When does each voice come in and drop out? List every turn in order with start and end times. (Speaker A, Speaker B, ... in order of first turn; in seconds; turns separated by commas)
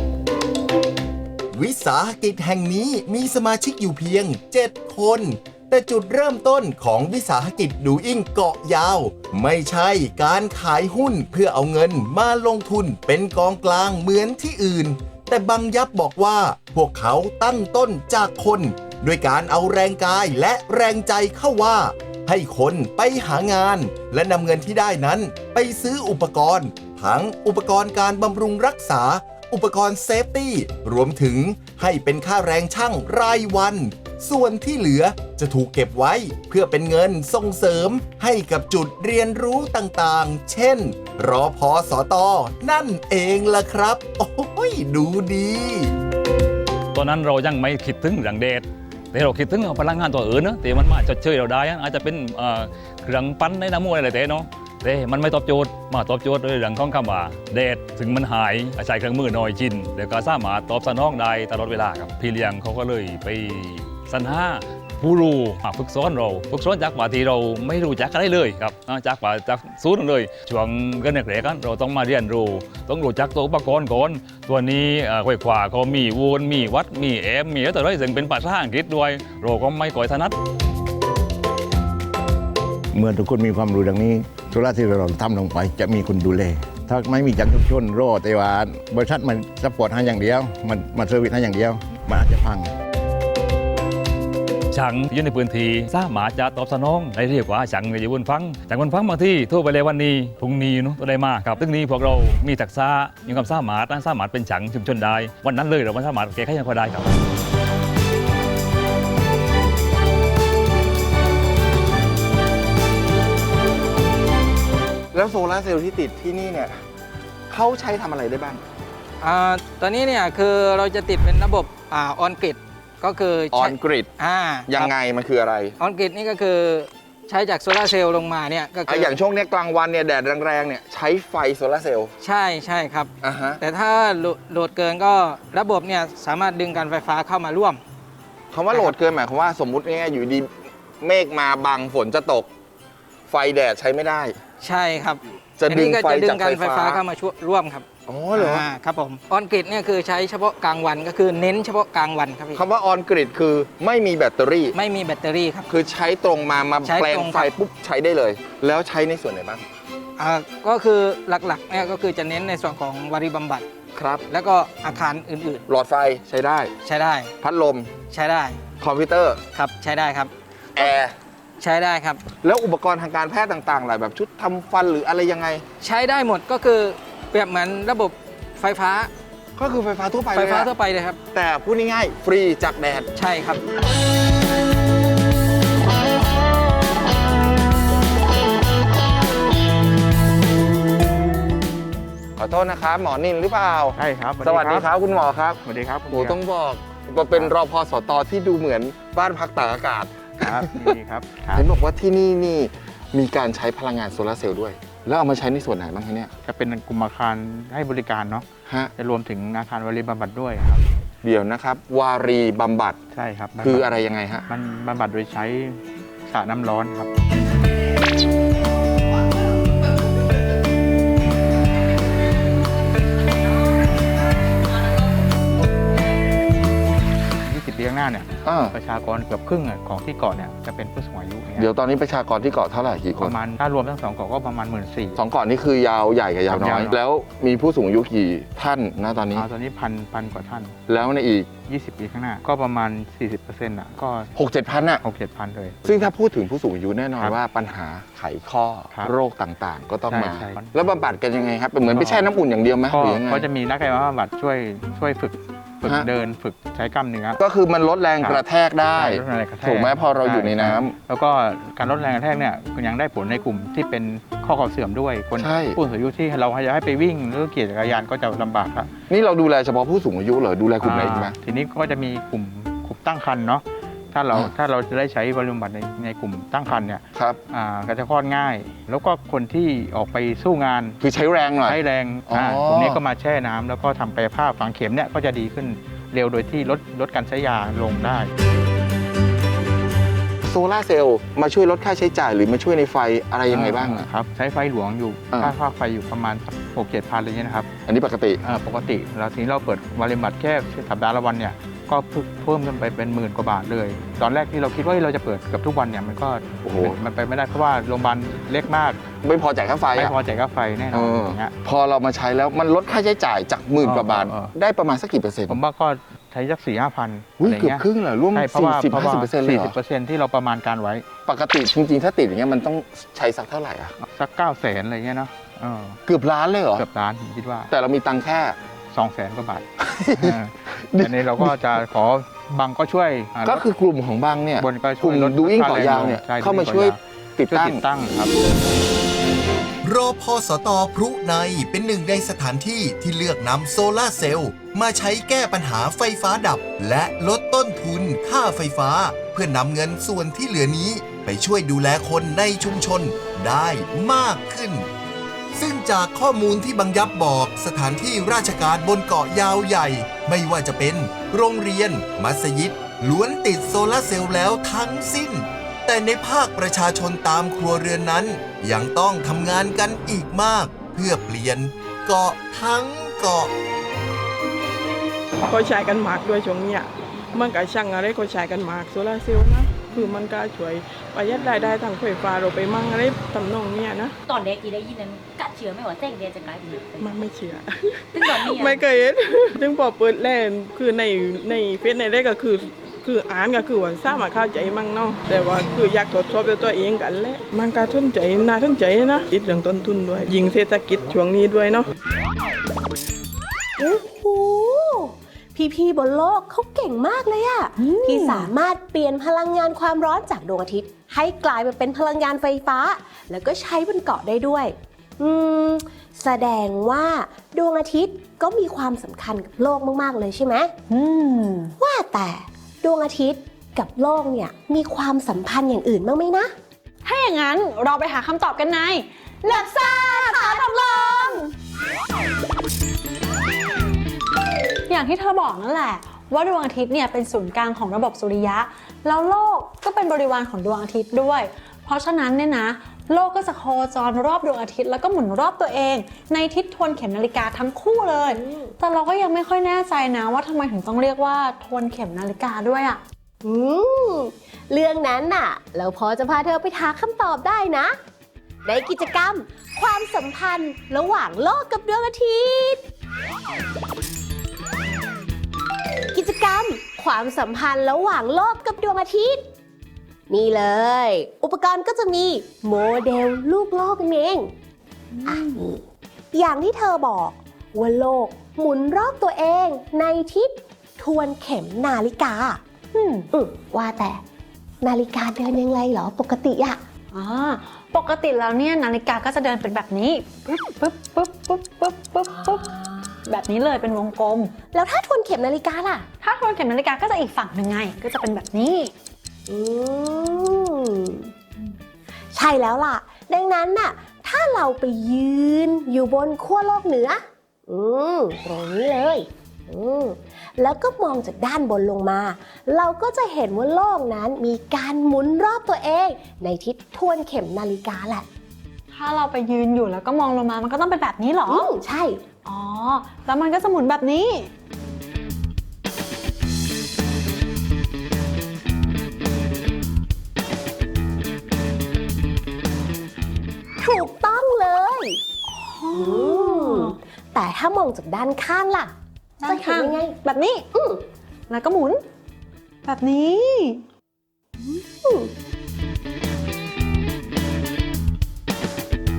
Speaker A: 1.5-45.9, Speaker B: 46.9-80.3, Speaker C: 82.9-92.7, Speaker B: 94.7-107.1, Speaker D: 115.1-116.7, Speaker D: 117.5-118.6, Speaker E: 119.2-124.9, Speaker D: 123.5-124.1, Speaker D: 124.7-125.8, Speaker E: 125.8-129.1, Speaker D: 128.9-132.1, Speaker E: 132.2-137.8, Speaker D: 133.2-133.6, Speaker D: 138.5-142.5, Speaker D: 143.3-144.3, Speaker E: 144.6-152.6, Speaker D: 145.6-147.0, Speaker D: 148.1-148.7, Speaker D: 152.5-154.7, Speaker E: 154.7-155.7, Speaker D: 155.7-159.6, Speaker E: 156.8-157.5, Speaker E: 160.2-163.7, Speaker D: 163.9-164.2, Speaker E: 164.3-165.6, Speaker D: 165.7-166.7, Speaker E: 166.8-167.3, Speaker D: 167.4-167.9, Speaker E: 168.1-168.6, Speaker D: 168.8-169.4, Speaker E: 169.5-171.0, Speaker D: 170.8-171.1, Speaker E: 171.6-172.2, Speaker D: 172.4-175.6, Speaker E: 175.8-179.1, Speaker D: 179.6-180.7, Speaker E: 180.3-181.2, Speaker D: 181.3-183.1, Speaker E: 183.1-183.6, Speaker D: 192.4-200.9, Speaker F: 193.9-194.9, Speaker F: 195.6-196.4, Speaker F: 200.4-201.7, Speaker D: 201.5-206.3, Speaker F: 206.4-210.8, Speaker D: 208.7-208.9, Speaker D: 211.2-213.0, Speaker F: 213.1-213.9, Speaker D: 213.6-214.5, Speaker F: 214.5-217.1, Speaker F: 227.4-231.7, Speaker D: 228.4-228.7, Speaker D: 231.6-233.4, Speaker F: 233.2-235.2, Speaker D: 235.2-239.5, Speaker F: 236.5-236.9, Speaker F: 239.3-240.8, Speaker D: 240.9-241.6, Speaker F: 241.6-244.3, Speaker D: 244.3-245.0, Speaker F: 245.0-245.8, Speaker D: 245.8-253.5, Speaker F: 250.1-250.7, Speaker F: 251.9-252.2, Speaker F: 252.9-257.4, Speaker D: 255.8-256.1, Speaker D: 257.4-261.0, Speaker F: 258.9-268.9, Speaker D: 265.4-265.8, Speaker D: 269.1-271.4, Speaker F: 270.8-281.0, Speaker D: 281.0-283.0, Speaker F: 281.6-288.3, Speaker D: 290.4-294.1, Speaker F: 293.5-297.7, Speaker D: 295.3-295.5, Speaker D: 297.9-298.4, Speaker F: 298.4-309.0, Speaker D: 306.6-307.0, Speaker D: 309.2-310.1, Speaker F: 309.9-311.6, Speaker D: 310.9-315.6, Speaker F: 313.8-314.5, Speaker F: 315.5-321.1, Speaker D: 317.4-319.8, Speaker D: 321.2-323.9, Speaker F: 324.0-326.0, Speaker D: 326.1-326.9, Speaker F: 326.8-327.7, Speaker D: 327.7-328.6, Speaker F: 328.9-333.6, Speaker D: 329.9-331.6, Speaker D: 333.4-337.8, Speaker F: 334.6-338.3, Speaker A: 339.8-354.9, Speaker A: 355.5-373.5, Speaker G: 375.4-384.1, Speaker H: 384.3-387.2, Speaker G: 387.0-401.9, Speaker H: 388.1-388.8, Speaker I: 403.8-420.7, Speaker J: 407.8-408.5, Speaker J: 420.9-421.8, Speaker I: 421.8-426.5, Speaker J: 427.0-431.5, Speaker I: 429.4-431.4, Speaker J: 434.9-453.0, Speaker I: 448.3-448.7, Speaker I: 453.4-458.0, Speaker I: 458.6-462.8, Speaker I: 466.1-469.4, Speaker I: 470.3-474.5, Speaker J: 475.1-475.6, Speaker I: 475.3-482.6, Speaker J: 482.9-483.3, Speaker I: 483.3-484.2, Speaker I: 484.8-486.8, Speaker J: 487.1-492.7, Speaker I: 492.3-493.2, Speaker J: 493.2-494.5, Speaker I: 494.7-496.1, Speaker J: 496.2-498.9, Speaker I: 499.5-501.3, Speaker I: 502.3-518.2, Speaker J: 518.9-521.7, Speaker I: 521.5-522.2, Speaker J: 522.4-524.5, Speaker I: 533.8-535.2, Speaker J: 535.5-537.0, Speaker I: 535.9-538.9, Speaker J: 539.4-540.6, Speaker I: 539.4-540.1, Speaker I: 540.7-541.0, Speaker J: 541.5-542.0, Speaker J: 542.8-543.8, Speaker I: 544.6-545.3